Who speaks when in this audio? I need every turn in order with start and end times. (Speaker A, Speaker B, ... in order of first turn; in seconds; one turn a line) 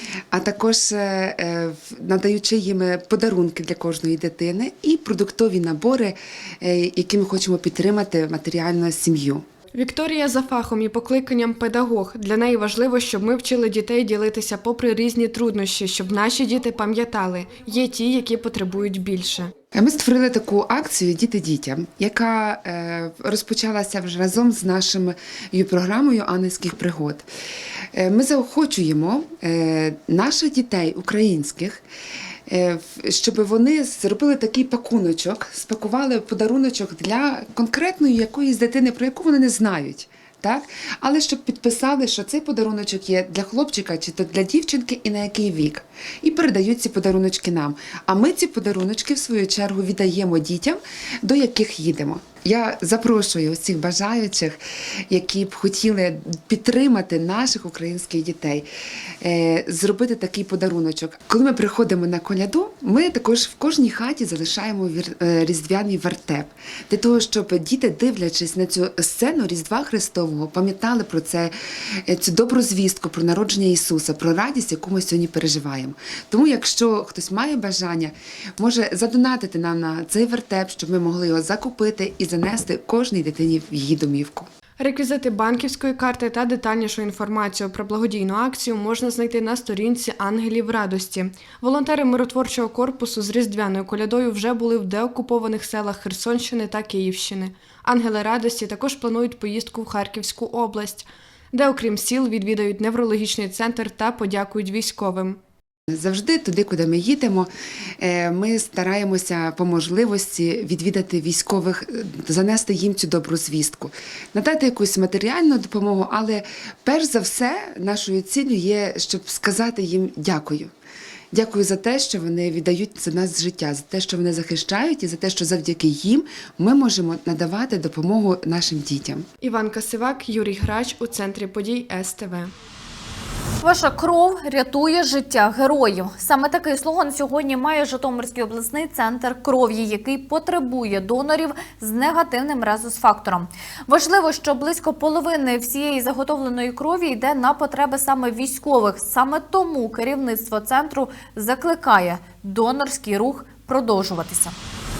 Speaker A: 0.3-9.4
Speaker B: 9.7-19.5
Speaker A: 19.7-27.3
Speaker A: 27.9-31.8
Speaker A: 32.5-58.7
Speaker A: 59.2-71.5
Speaker A: 72.0-84.5
Speaker B: 84.8-105.4
Speaker A: 105.9-120.7
Speaker A: 121.3-129.3
Speaker B: 129.4-132.5
Speaker C: 133.6-154.5